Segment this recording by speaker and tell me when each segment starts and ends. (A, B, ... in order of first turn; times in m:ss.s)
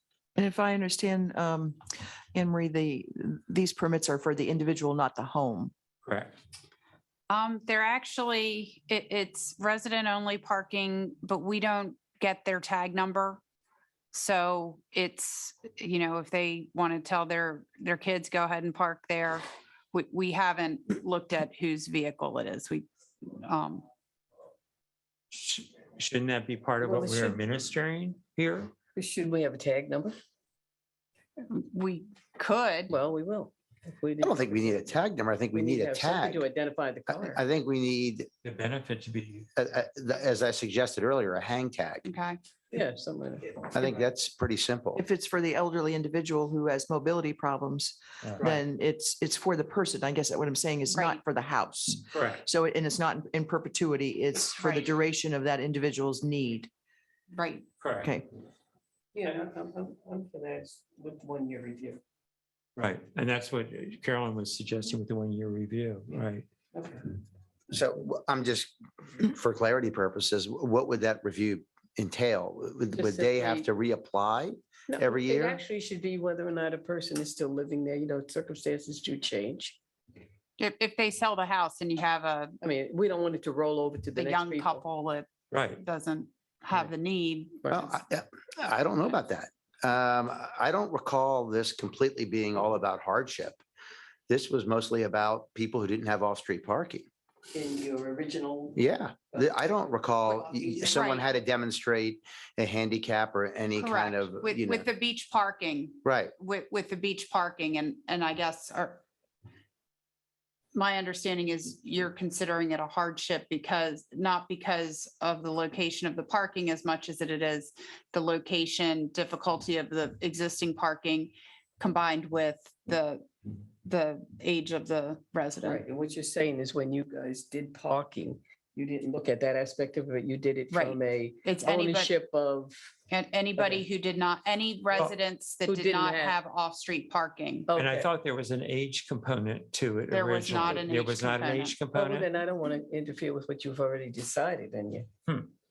0:00.4-0:05.7 A
0:06.0-0:06.3 B
0:07.3-0:13.4 C
0:14.1-0:23.8 C
0:25.3-0:28.7 B
0:26.8-0:27.4 D
0:28.9-0:30.2 D
0:31.5-0:32.9 C
0:32.9-0:35.0 D
0:34.2-0:36.4 E
0:35.5-0:37.4 D
0:37.1-0:38.3 E
0:38.4-0:39.5 B
0:39.6-0:42.0 E
0:42.0-0:42.4 C
0:42.7-0:43.8 D
0:43.7-0:45.0 E
0:44.9-0:56.7 A
0:50.9-0:51.2 C
0:52.1-0:52.4 B
0:54.6-0:54.9 C
0:57.3-0:57.6 C
0:57.8-0:58.1 B
0:58.0-0:58.3 A
0:59.1-1:02.0 D
1:02.8-1:06.5 B
1:06.7-1:07.1 D
1:07.7-1:15.6 E
1:12.9-1:13.7 D
1:14.9-1:19.8 D
1:20.6-1:22.6 C
1:22.6-1:24.8 D
1:24.2-1:25.3 C
1:25.5-1:25.8 B
1:25.8-1:27.9 C
1:27.7-1:33.6 E
1:34.3-1:37.0 E
1:37.5-1:41.0 D
1:38.7-1:44.8 E
1:40.9-1:41.3 C
1:43.8-1:49.0 C
1:46.0-1:46.3 E
1:50.7-2:03.3 C
2:03.8-2:05.8 C
2:05.6-2:12.8 D
2:10.7-2:12.1 C
2:13.1-2:17.7 C
2:13.6-2:13.8 D
2:15.6-2:16.4 D
2:17.7-2:18.1 D
2:17.7-2:22.3 B
2:20.1-2:21.8 C
2:20.5-2:20.8 D
2:21.9-2:25.1 D